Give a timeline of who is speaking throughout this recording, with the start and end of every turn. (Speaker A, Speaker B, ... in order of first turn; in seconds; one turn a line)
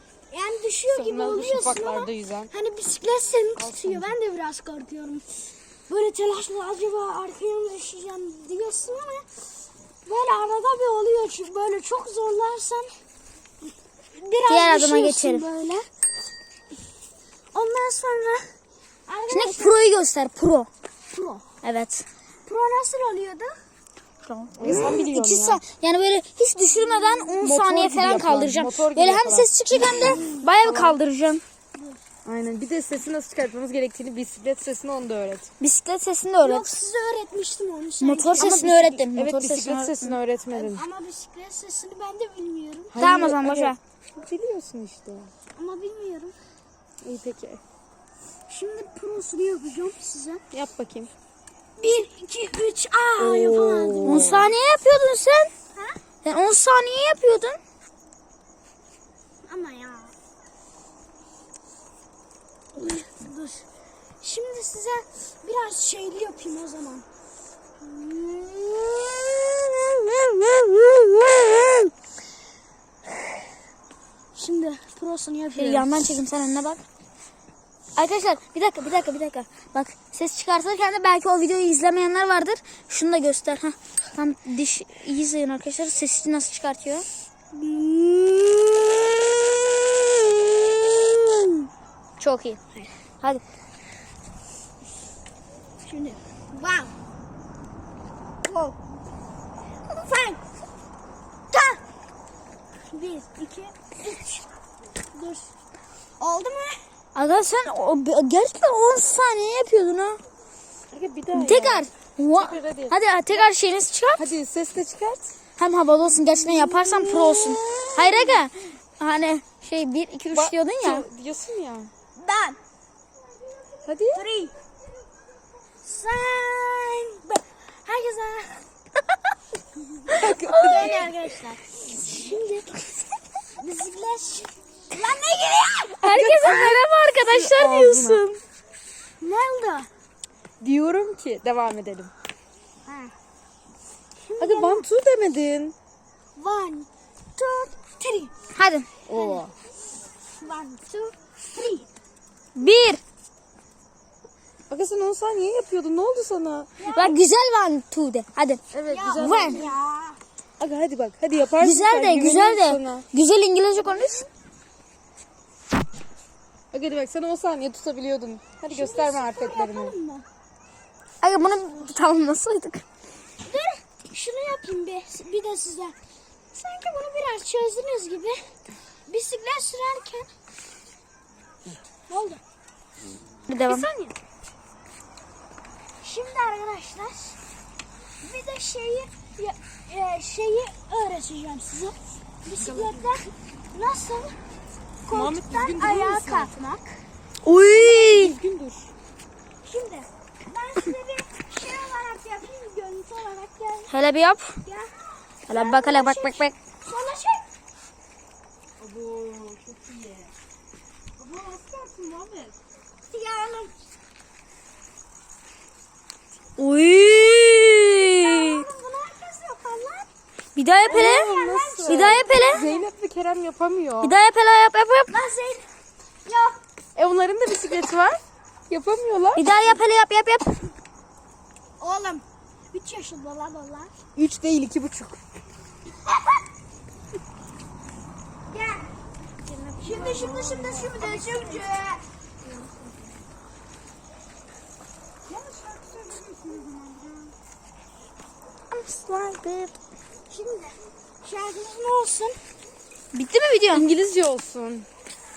Speaker A: 0.3-9.5
Speaker B: 0.9-2.5
Speaker B: 3.6-4.1
Speaker A: 10.1-13.0
Speaker A: 14.1-15.9
Speaker C: 14.5-15.4
Speaker A: 17.5-19.8
Speaker C: 19.3-20.7
Speaker A: 21.1-21.5
Speaker C: 21.6-22.1
Speaker A: 22.4-23.6
Speaker C: 24.2-31.4
Speaker B: 24.6-25.6
Speaker A: 26.7-27.4
Speaker B: 27.4-31.0
Speaker A: 29.8-30.4
Speaker A: 31.8-32.0
Speaker B: 32.2-35.5
Speaker C: 35.6-36.9
Speaker A: 36.4-39.0
Speaker C: 38.0-40.2
Speaker B: 38.4-40.8
Speaker A: 40.5-43.3
Speaker B: 42.9-45.3
Speaker C: 43.0-43.8
Speaker A: 45.5-46.4
Speaker B: 47.0-47.6
Speaker A: 48.5-50.4
Speaker B: 50.5-51.1
Speaker A: 51.8-54.4
Speaker B: 53.2-54.5
Speaker C: 54.0-55.5
Speaker C: 56.2-57.6
Speaker A: 59.4-60.1
Speaker A: 62.8-63.7
Speaker A: 64.2-67.1
Speaker A: 67.8-69.0
Speaker A: 74.3-75.9
Speaker C: 75.5-76.8
Speaker C: 78.0-87.0
Speaker A: 87.7-88.5
Speaker C: 87.7-88.3
Speaker C: 92.2-92.6
Speaker A: 95.8-96.9
Speaker A: 98.5-98.8
Speaker A: 99.9-100.4
Speaker A: 101.5-101.8
Speaker A: 102.9-104.5
Speaker A: 105.1-105.5
Speaker A: 106.2-106.8
Speaker C: 107.2-110.2
Speaker B: 110.9-113.0
Speaker C: 111.3-114.3
Speaker B: 114.2-115.3
Speaker C: 115.6-121.1
Speaker A: 116.5-118.4
Speaker B: 120.3-121.9
Speaker A: 122.2-122.6
Speaker B: 123.8-124.2
Speaker A: 124.1-124.5
Speaker A: 125.8-128.7
Speaker B: 130.1-131.1
Speaker C: 130.4-131.0
Speaker A: 130.5-132.9
Speaker A: 133.6-136.8
Speaker C: 136.0-138.4
Speaker B: 136.2-138.2
Speaker A: 139.2-139.9
Speaker B: 140.6-142.1
Speaker A: 142.8-143.2
Speaker A: 144.2-144.8
Speaker B: 144.4-145.7
Speaker A: 146.4-148.3
Speaker C: 148.5-148.9
Speaker B: 149.1-149.5
Speaker A: 149.1-149.5
Speaker A: 150.3-151.9
Speaker C: 152.6-153.0
Speaker B: 154.7-156.7
Speaker A: 156.8-157.2
Speaker C: 156.8-158.7
Speaker B: 158.7-159.7
Speaker A: 158.9-160.2
Speaker C: 159.2-159.7
Speaker B: 160.6-163.1
Speaker C: 161.6-164.3
Speaker B: 166.7-169.9
Speaker A: 168.7-170.2
Speaker C: 171.2-172.8
Speaker A: 173.4-176.0
Speaker A: 176.5-178.6
Speaker A: 179.1-180.3
Speaker A: 182.1-182.4
Speaker C: 183.5-183.9
Speaker B: 183.7-184.2
Speaker A: 186.0-187.4
Speaker A: 188.2-194.4
Speaker B: 192.6-193.0
Speaker A: 195.0-197.0
Speaker B: 195.1-196.5
Speaker C: 197.4-198.4
Speaker B: 197.7-198.9
Speaker A: 199.6-203.9
Speaker C: 203.9-204.6
Speaker A: 204.6-207.4
Speaker C: 205.5-206.6
Speaker B: 208.8-210.3
Speaker B: 211.2-212.6
Speaker A: 213.1-213.8
Speaker C: 216.6-218.7
Speaker A: 218.2-220.1
Speaker C: 220.6-221.3
Speaker A: 220.8-222.9
Speaker B: 220.8-224.1
Speaker C: 221.9-222.7
Speaker C: 224.0-225.2
Speaker A: 225.1-225.7
Speaker A: 226.2-226.6
Speaker B: 227.0-229.5
Speaker C: 229.3-230.6
Speaker A: 231.8-233.9
Speaker B: 234.2-235.2
Speaker A: 238.5-238.9
Speaker B: 239.5-241.2
Speaker A: 239.8-242.0
Speaker C: 240.8-241.6
Speaker B: 245.3-247.3
Speaker C: 248.7-249.7
Speaker A: 250.3-252.4
Speaker C: 253.1-253.9
Speaker B: 253.7-254.9